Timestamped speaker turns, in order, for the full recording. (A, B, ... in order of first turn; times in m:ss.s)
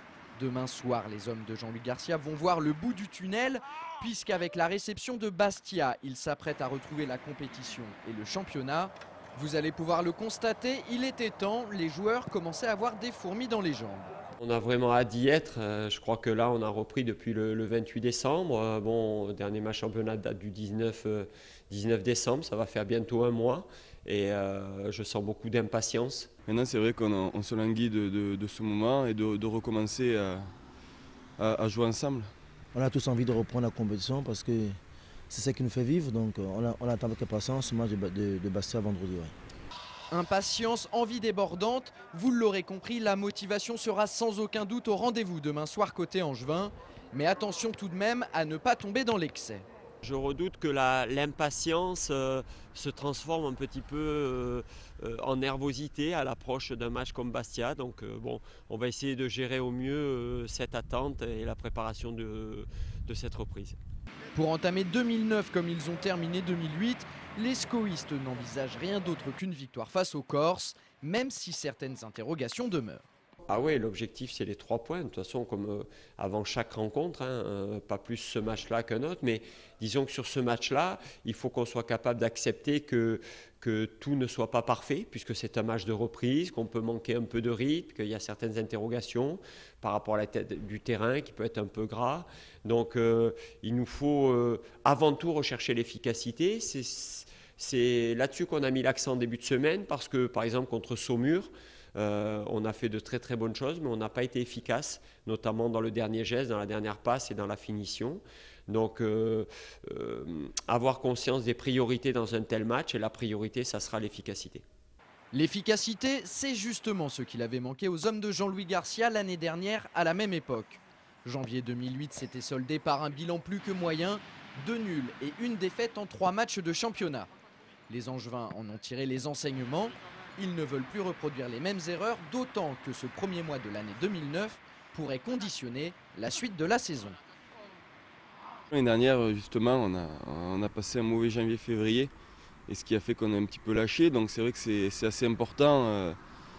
0:00.4-0:14.1 A
0:14.4-0:26.3 B
0:26.5-0:30.5 C
0:31.4-0:32.3 C
0:32.7-0:34.8 D
0:35.3-0:39.3 D
0:40.1-0:49.6 A
0:50.0-1:03.8 B
1:04.3-1:13.0 A
1:13.5-1:54.6 B
1:55.3-2:07.3 A
2:07.9-2:17.2 A
2:18.7-2:22.1 C
2:22.7-2:26.2 C